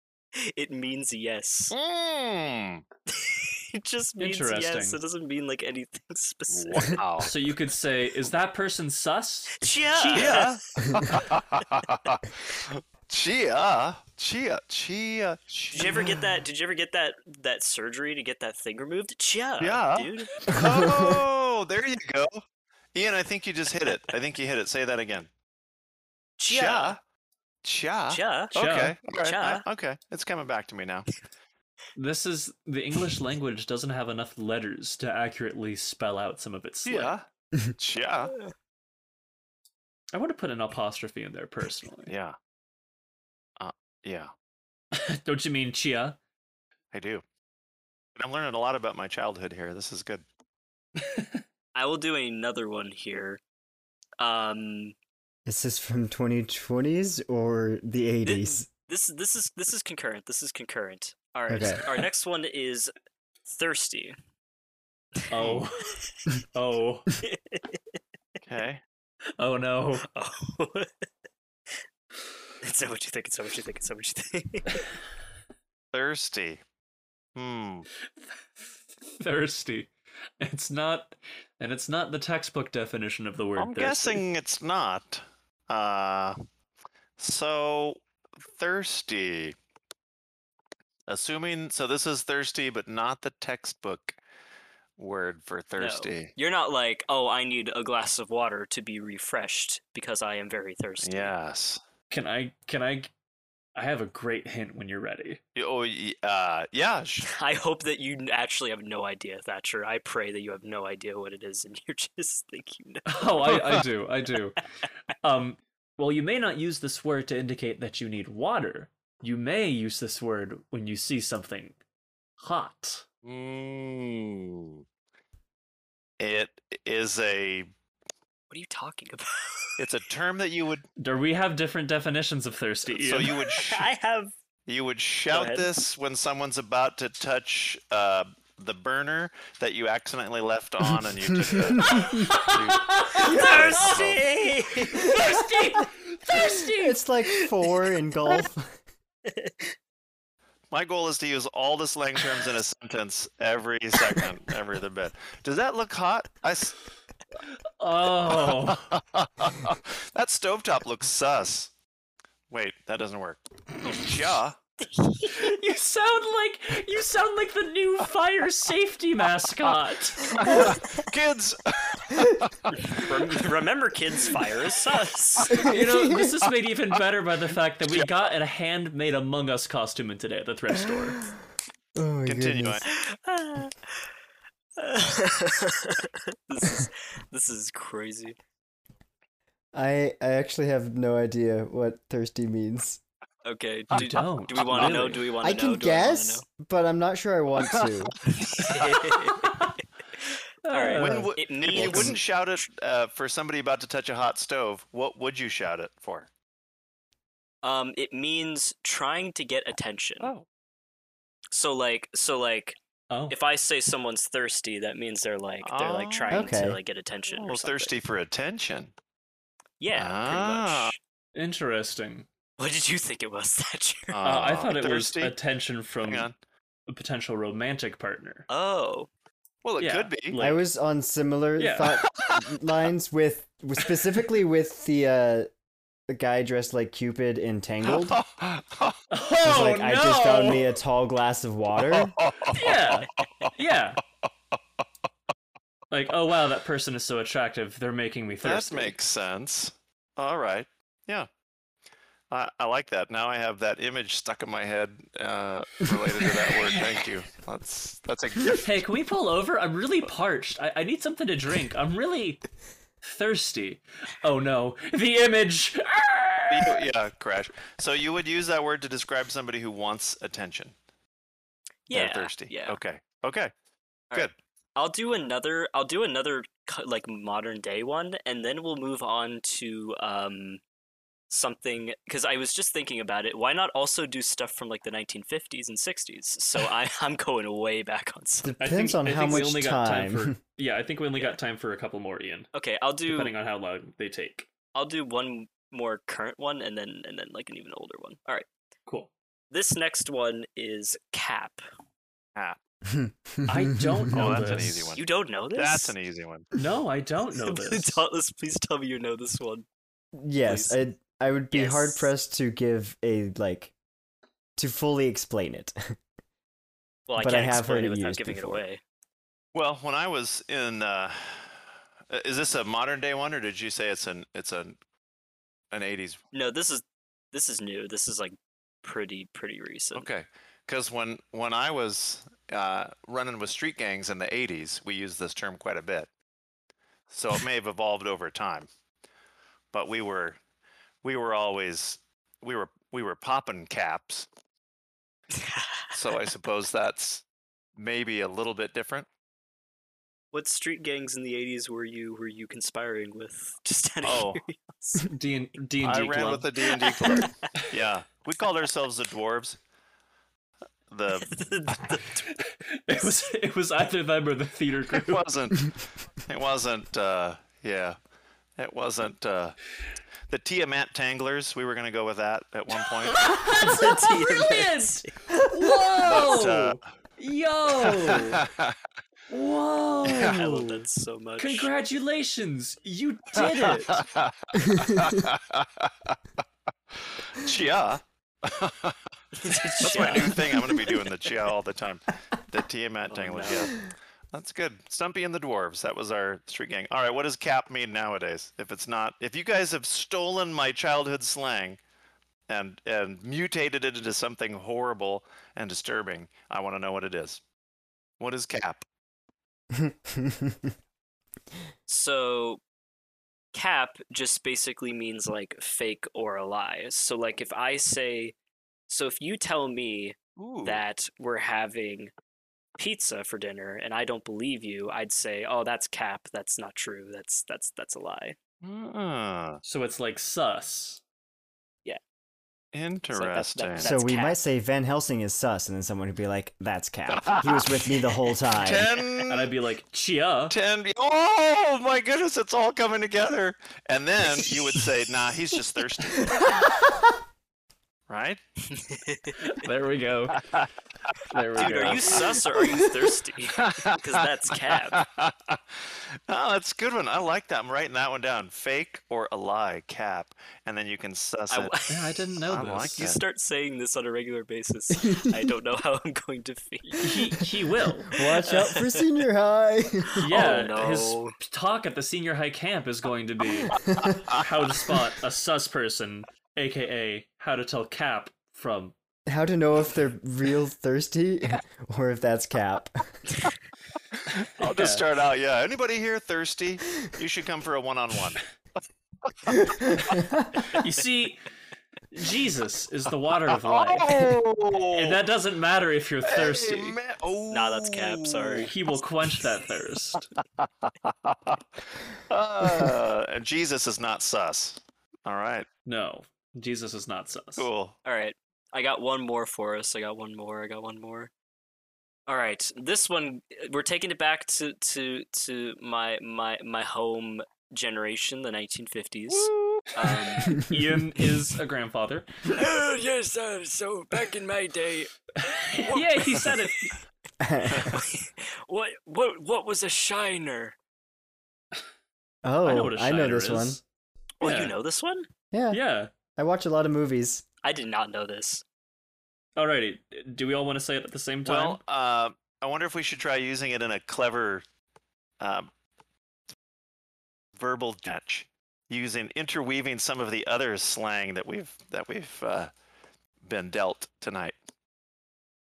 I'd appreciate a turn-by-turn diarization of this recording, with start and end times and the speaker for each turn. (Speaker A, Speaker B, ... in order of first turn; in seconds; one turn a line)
Speaker A: 0.3-1.7
Speaker B: 1.7-2.8
Speaker A: 3.1-7.0
Speaker C: 4.2-5.0
Speaker B: 6.5-7.3
Speaker C: 7.2-10.5
Speaker A: 9.6-11.0
Speaker B: 10.1-16.2
Speaker A: 15.7-20.5
Speaker B: 19.6-22.4
Speaker D: 20.5-21.2
Speaker B: 22.9-25.3
Speaker A: 26.4-27.0
Speaker B: 26.5-27.0
Speaker B: 27.6-31.1
Speaker A: 28.1-28.5
Speaker C: 28.5-29.0
Speaker A: 29.1-29.6
Speaker C: 31.9-37.1
Speaker B: 36.8-38.3
Speaker C: 40.1-42.1
Speaker B: 42.1-42.4
Speaker B: 43.6-44.3
Speaker C: 44.9-46.2
Speaker B: 46.9-47.2
Speaker B: 48.2-50.2
Speaker C: 51.0-51.4
Speaker A: 51.7-53.4
Speaker A: 54.2-54.9
Speaker D: 55.5-58.7
Speaker A: 58.2-62.9
Speaker D: 61.5-61.9
Speaker A: 63.4-64.2
Speaker C: 65.3-67.1
Speaker B: 65.3-65.6
Speaker A: 67.2-67.8
Speaker B: 68.4-68.8
Speaker C: 69.4-70.0
Speaker A: 70.0-71.0
Speaker A: 72.6-74.8
Speaker B: 75.9-76.6
Speaker B: 77.3-77.9
Speaker C: 78.3-84.2
Speaker B: 83.6-86.4
Speaker B: 87.2-89.5
Speaker B: 91.1-94.2
Speaker B: 95.0-96.3
Speaker A: 95.8-101.3
Speaker B: 101.0-101.8
Speaker C: 102.1-103.1
Speaker C: 103.7-105.4
Speaker B: 105.5-107.3
Speaker A: 107.2-113.5
Speaker C: 113.1-114.6
Speaker B: 113.5-113.8
Speaker C: 115.2-121.8
Speaker C: 122.4-123.0
Speaker B: 123.2-124.8
Speaker B: 126.2-127.7
Speaker A: 128.5-129.8
Speaker B: 129.8-130.8
Speaker C: 131.0-133.3
Speaker B: 132.9-133.9
Speaker A: 133.4-134.3
Speaker B: 134.7-144.2
Speaker A: 135.3-135.7
Speaker D: 141.3-142.2
Speaker C: 142.0-143.9
Speaker A: 143.2-145.5
Speaker C: 145.0-147.0
Speaker D: 146.3-148.8
Speaker A: 149.3-149.7
Speaker B: 150.7-156.8
Speaker C: 157.8-158.8
Speaker B: 158.4-161.7
Speaker B: 162.5-164.6
Speaker A: 164.9-165.5
Speaker C: 165.3-170.8
Speaker B: 170.2-173.1
Speaker A: 172.7-175.7
Speaker D: 175.5-176.3
Speaker C: 175.6-181.3
Speaker D: 181.9-182.8
Speaker B: 182.2-182.8
Speaker A: 182.9-183.9
Speaker A: 184.8-188.3
Speaker D: 189.7-193.0
Speaker A: 193.4-196.4
Speaker C: 193.9-195.3
Speaker D: 195.4-198.2
Speaker A: 198.3-199.6
Speaker C: 199.0-199.7
Speaker C: 200.6-201.2
Speaker A: 200.7-202.7
Speaker B: 201.0-206.3
Speaker D: 201.0-202.2
Speaker A: 207.6-210.3
Speaker B: 210.2-210.4
Speaker A: 211.5-212.8
Speaker C: 213.1-213.3
Speaker A: 213.3-218.0
Speaker B: 215.6-216.5
Speaker D: 216.3-216.8
Speaker B: 217.3-218.9
Speaker A: 219.8-221.0
Speaker B: 219.9-220.9
Speaker C: 221.3-222.2
Speaker A: 222.6-224.2
Speaker B: 224.1-225.3
Speaker C: 224.2-226.3
Speaker B: 226.0-226.3
Speaker C: 226.9-228.5
Speaker A: 228.5-229.1
Speaker B: 229.6-230.4
Speaker C: 229.8-230.6
Speaker D: 230.4-235.5
Speaker C: 231.6-232.0
Speaker D: 236.1-238.2
Speaker B: 237.9-239.0
Speaker C: 239.1-240.7
Speaker D: 239.4-242.2
Speaker B: 241.8-243.5
Speaker C: 242.5-244.0
Speaker C: 245.9-248.9
Speaker B: 248.4-251.3
Speaker B: 252.3-258.6
Speaker C: 258.6-262.4
Speaker C: 263.0-266.8
Speaker B: 266.5-270.7
Speaker A: 271.9-272.8
Speaker B: 271.9-273.5
Speaker A: 274.1-280.6
Speaker A: 281.3-288.5
Speaker D: 288.4-290.4
Speaker C: 288.6-292.5
Speaker A: 292.5-293.3
Speaker C: 293.1-294.5
Speaker A: 294.7-298.5
Speaker A: 299.5-301.6
Speaker D: 302.9-304.5
Speaker C: 303.4-304.9
Speaker B: 304.1-306.5
Speaker A: 304.9-305.9
Speaker C: 306.5-308.0
Speaker A: 307.4-309.6
Speaker D: 310.1-313.7
Speaker A: 310.4-310.8
Speaker A: 311.5-312.1
Speaker D: 314.6-315.8
Speaker A: 317.1-318.8
Speaker D: 317.2-318.6
Speaker B: 319.5-321.5
Speaker B: 322.1-324.8
Speaker B: 325.7-326.2
Speaker A: 326.3-330.1
Speaker B: 329.9-336.1
Speaker B: 337.1-338.7
Speaker B: 339.7-340.4
Speaker B: 341.0-344.3
Speaker A: 345.3-345.8
Speaker B: 345.9-347.2
Speaker B: 347.8-349.1
Speaker A: 350.3-355.1
Speaker B: 354.0-354.4
Speaker C: 355.0-357.2
Speaker B: 355.8-359.6
Speaker A: 357.0-357.4
Speaker B: 360.9-361.9
Speaker A: 361.3-362.3
Speaker C: 362.4-365.3
Speaker B: 364.9-368.0
Speaker B: 368.6-369.6
Speaker B: 370.3-373.1
Speaker C: 373.1-378.4
Speaker A: 373.4-375.1
Speaker B: 376.0-376.8
Speaker B: 377.7-378.8
Speaker C: 379.3-380.7
Speaker B: 380.1-380.4
Speaker A: 380.1-381.7
Speaker C: 381.4-384.0
Speaker B: 383.4-386.2
Speaker D: 384.6-385.1
Speaker B: 386.9-389.0
Speaker A: 389.4-390.7
Speaker B: 389.8-401.8
Speaker C: 389.9-390.4
Speaker A: 393.1-393.7
Speaker B: 402.5-407.4
Speaker B: 408.2-408.8
Speaker D: 409.7-410.7
Speaker A: 411.9-412.6
Speaker A: 413.5-418.3
Speaker A: 418.9-422.1
Speaker B: 420.4-420.8
Speaker A: 422.8-428.4
Speaker B: 428.6-429.6
Speaker C: 429.6-431.0
Speaker B: 432.7-433.9
Speaker A: 433.1-434.4
Speaker D: 433.8-438.9
Speaker B: 437.1-437.6
Speaker B: 438.5-439.5
Speaker C: 439.3-440.6
Speaker B: 440.5-446.5
Speaker B: 448.1-448.4
Speaker A: 448.7-449.4
Speaker C: 449.4-450.4
Speaker B: 450.3-452.2
Speaker C: 451.3-452.3
Speaker A: 451.6-455.0
Speaker B: 453.5-461.7
Speaker A: 461.5-462.1
Speaker C: 461.9-463.1
Speaker B: 462.5-463.2
Speaker A: 462.9-467.1
Speaker D: 465.0-465.4
Speaker C: 466.8-468.4
Speaker D: 468.1-470.5
Speaker A: 468.5-469.0
Speaker C: 470.2-478.9
Speaker A: 470.2-471.3
Speaker D: 479.3-483.1
Speaker B: 484.2-488.4
Speaker C: 484.6-485.1
Speaker B: 489.3-489.6
Speaker D: 489.5-490.6
Speaker C: 490.7-491.4
Speaker C: 492.1-494.3
Speaker B: 493.5-495.2
Speaker C: 494.9-497.0
Speaker B: 496.2-498.7
Speaker A: 497.5-498.7
Speaker C: 498.6-500.3
Speaker B: 500.6-505.7
Speaker C: 505.9-507.7
Speaker B: 507.6-507.9
Speaker A: 508.0-511.3
Speaker A: 512.3-520.6
Speaker C: 519.7-522.5
Speaker A: 522.5-525.1
Speaker C: 525.4-527.0
Speaker A: 525.8-526.9
Speaker D: 527.4-528.0
Speaker A: 527.7-530.7
Speaker D: 532.4-533.8
Speaker C: 532.6-533.8
Speaker A: 534.4-535.3
Speaker C: 534.4-534.7
Speaker D: 535.5-535.8
Speaker C: 535.7-536.1
Speaker D: 536.4-537.4
Speaker A: 537.6-538.6
Speaker C: 539.5-541.8
Speaker B: 541.4-544.6
Speaker B: 545.4-545.7
Speaker B: 547.5-552.7
Speaker B: 553.4-554.5